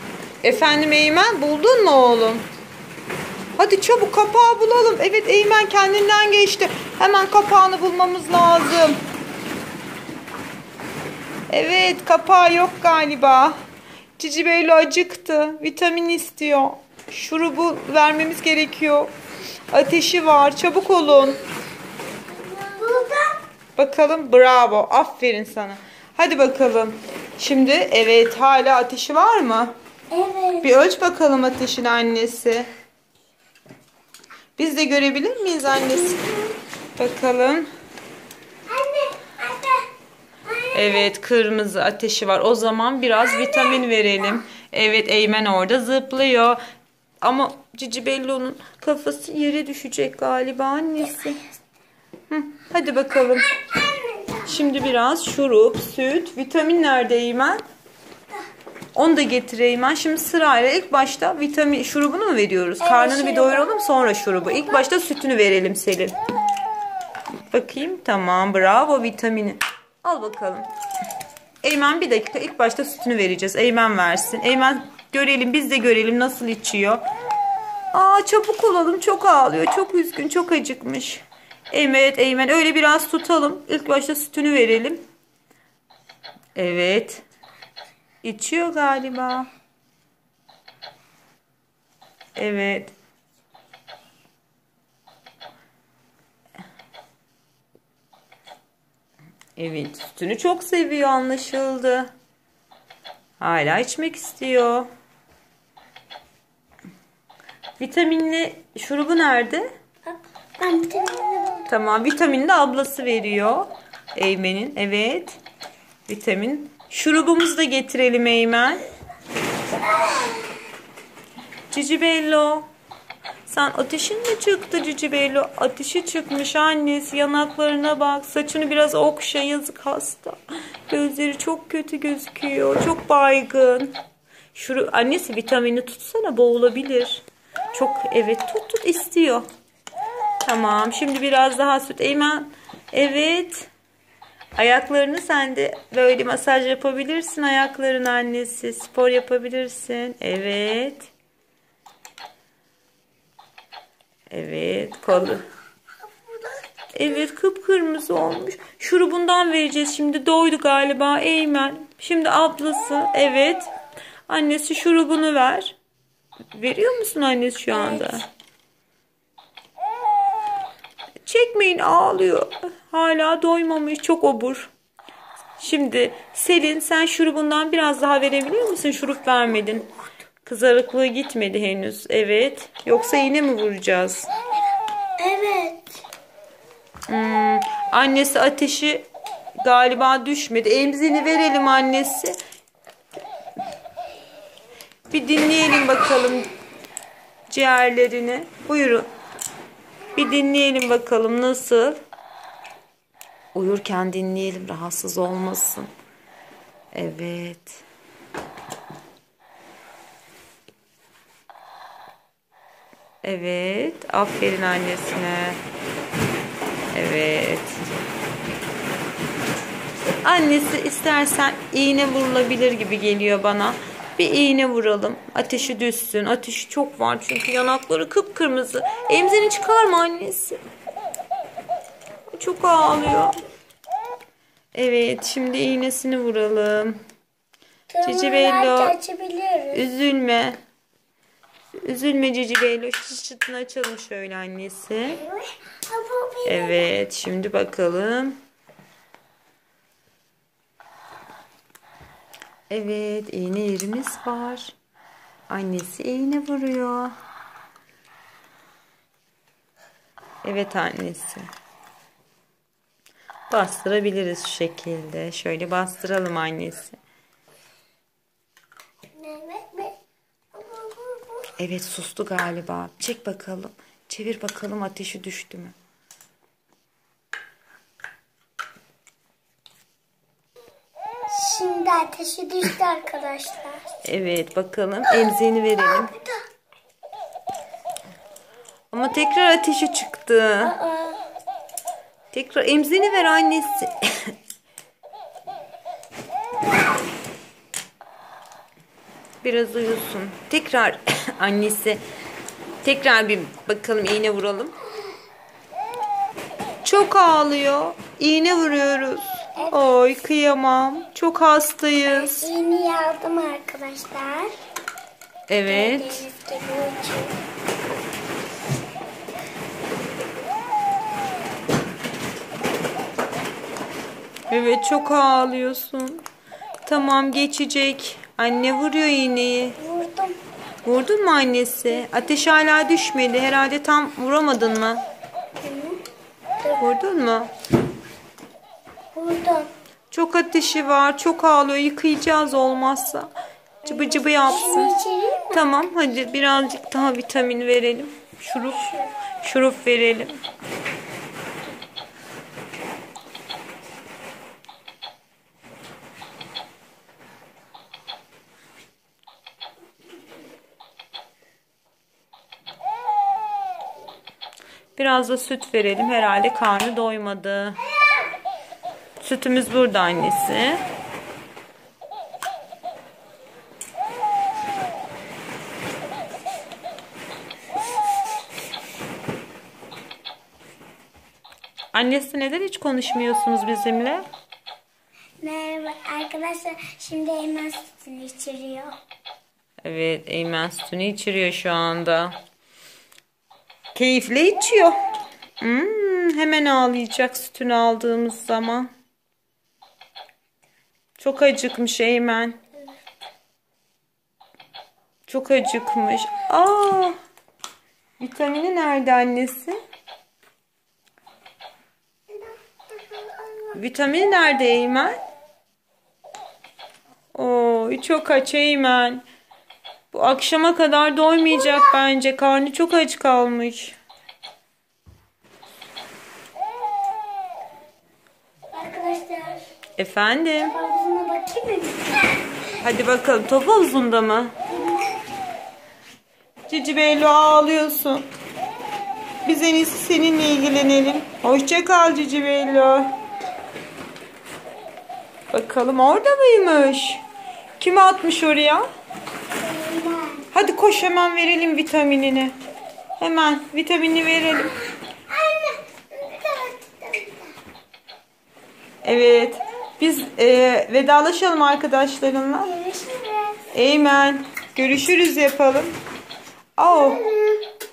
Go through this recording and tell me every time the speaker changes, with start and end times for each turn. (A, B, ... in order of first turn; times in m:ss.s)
0:00.4-0:02.4 A
0:03.6-0:09.0 A
0:11.5-0:13.6 A
0:14.2-0:19.1 A
0:19.7-0:21.4 A
0:22.3-0:23.4 B
0:23.8-0:29.7 A
0:30.1-0:30.7 B
0:30.6-0:32.7 A
0:34.6-0:36.2 A
0:36.0-0:36.5 B
0:37.0-0:37.7 A
0:38.7-0:39.9 B
0:40.5-0:41.1 B
0:40.7-0:46.6 A
0:43.2-0:43.9 B
0:47.2-0:51.4 A
0:52.3-0:53.5 A
0:53.2-0:54.5 B
0:54.5-0:57.6 A
0:59.0-1:06.2 A
1:02.8-1:03.7 B
1:07.5-1:10.7 A
1:11.6-1:17.0 A
1:17.9-1:25.0 A
1:26.6-1:27.2 A
1:28.2-1:29.5 A
1:32.4-1:32.9 A
1:39.6-1:42.1 A
1:43.4-1:44.9 A
1:47.8-1:49.7 A
1:50.1-1:51.7 B
1:51.7-1:55.4 A
1:56.1-1:58.8 A
1:59.8-2:00.6 B
2:01.7-2:02.7 A
2:03.5-2:14.0 A
2:14.5-2:19.4 A
2:20.4-2:23.7 A
2:24.6-2:31.1 A
2:34.3-2:35.4 A
2:36.9-2:43.7 A
2:44.3-2:45.8 A
2:46.5-2:48.2 A
2:47.7-2:48.2 B
2:51.2-2:54.7 A
2:55.6-2:59.9 A
3:00.4-3:04.3 A
3:05.2-3:05.9 B
3:07.1-3:09.1 A
3:09.6-3:12.4 A
3:15.1-3:16.5 A
3:17.5-3:19.1 A
3:20.1-3:22.0 A
3:23.5-3:25.9 A
3:26.9-3:27.8 A
3:33.2-3:35.6 A
3:36.9-3:37.8 A
3:40.2-3:50.6 A
3:52.3-3:53.4 A
3:54.7-3:57.0 A
3:57.9-3:59.9 B
3:58.0-3:59.0 A
3:59.7-4:00.6 A
4:01.8-4:05.2 A
4:05.1-4:06.9 B
4:06.5-4:08.4 A
4:12.7-4:14.7 A
4:15.5-4:17.2 A
4:20.4-4:21.5 A
4:23.5-4:27.0 A
4:29.2-4:30.0 B
4:30.5-4:31.5 B
4:31.6-4:35.8 A
4:41.3-4:43.8 B
4:44.0-4:46.1 A
4:45.8-4:46.4 B
4:48.9-4:50.7 A
4:50.6-4:51.2 B
4:52.3-4:54.3 A
4:59.4-5:02.0 A
5:02.8-5:04.7 A
5:06.8-5:12.4 A
5:12.1-5:14.5 B
5:15.5-5:16.2 A
5:15.7-5:17.4 B
5:24.5-5:26.2 A
5:26.8-5:29.8 A
5:29.8-5:30.4 B
5:30.8-5:35.0 A
5:35.6-5:36.0 B
5:36.6-5:36.9 B
5:36.8-5:37.5 A
5:39.1-5:39.7 B
5:40.1-5:43.3 A
5:43.8-5:44.9 A
5:43.9-5:45.7 B
5:45.5-5:50.4 A
5:48.8-5:49.1 B
6:05.0-6:07.8 A
6:09.2-6:10.8 A
6:21.9-6:24.2 A
6:25.4-6:29.0 B
6:29.8-6:32.4 A
6:34.0-6:35.0 A
6:35.6-6:38.9 A
6:41.2-6:42.6 A
6:45.3-6:47.2 A
6:48.2-6:49.8 A
6:53.1-6:53.8 B
6:53.7-6:55.2 A
6:57.3-6:59.2 A
7:00.1-7:04.0 A
7:08.7-7:09.6 B
7:10.0-7:10.8 A
7:10.6-7:12.6 B
7:12.8-7:14.5 A
7:14.7-7:15.2 B
7:16.7-7:18.3 A
7:19.4-7:23.1 A
7:25.5-7:27.2 A
7:27.8-7:28.9 A
7:29.6-7:30.5 B
7:30.5-7:32.6 A
7:33.2-7:34.7 A
7:35.3-7:37.5 B
7:39.0-7:42.7 A
7:42.6-7:43.6 B
7:43.7-7:46.0 A
7:46.8-7:47.2 A
7:46.9-7:47.7 B